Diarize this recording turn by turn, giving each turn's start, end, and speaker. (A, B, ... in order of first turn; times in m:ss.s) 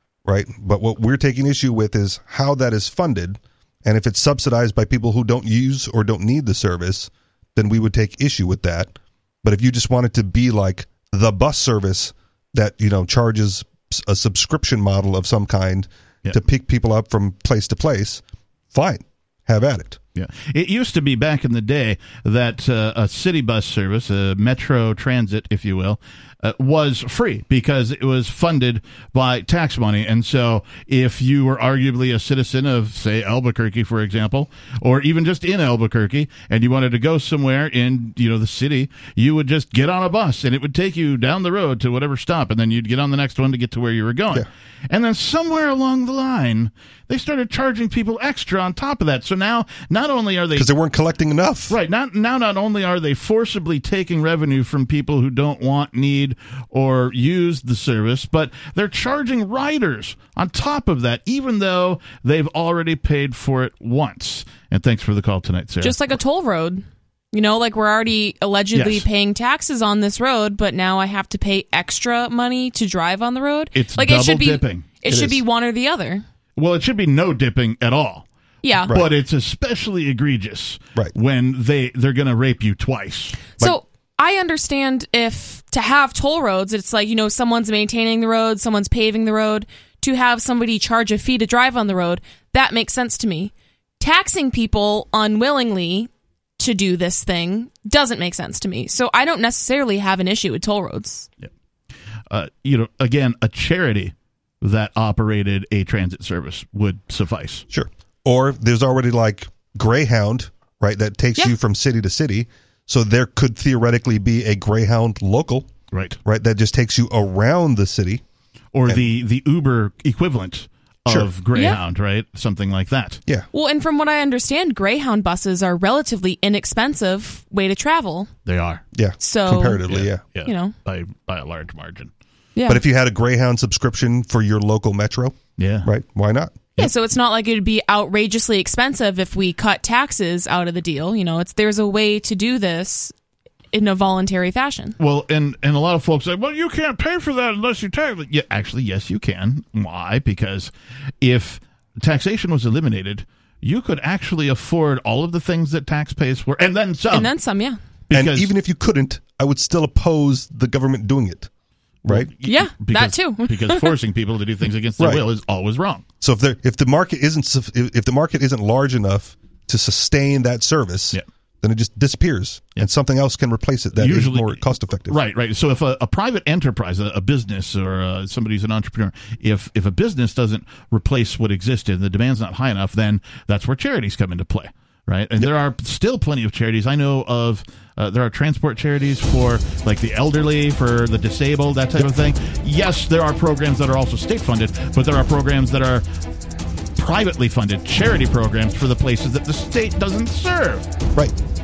0:00.2-0:20.0 A
0:20.1-0:50.7 B
0:50.6-0:51.8 A
0:51.7-1:05.9 B
1:05.8-1:16.2 C
1:08.7-1:09.0 B
1:13.7-1:14.9 B
1:15.0-1:15.4 A
1:16.6-1:18.2 B
1:18.6-1:18.9 C
1:18.8-1:23.4 B
1:23.6-1:41.3 C
1:42.3-1:47.6 B
1:47.7-1:55.7 A
1:55.9-1:56.2 B
1:56.2-1:58.2 A
1:58.7-2:03.2 B
2:01.5-2:01.8 C
2:03.5-2:08.3 C
2:08.4-2:08.8 B
2:08.9-2:10.2 A
2:09.2-2:09.8 C
2:09.9-2:12.1 B
2:10.4-2:10.7 C
2:12.5-2:12.8 C
2:12.7-2:16.7 A
2:15.6-2:15.9 B
2:16.8-2:23.1 C
2:23.7-2:24.9 C
2:25.0-2:37.3 B
2:37.1-2:37.8 C
2:38.1-2:38.5 B
2:38.1-2:41.5 A
2:42.0-2:42.3 A
2:42.0-2:46.0 B
2:42.4-2:43.9 C
2:45.0-2:45.2 A
2:46.2-2:55.2 A
2:53.9-3:16.0 B
3:17.0-3:20.8 B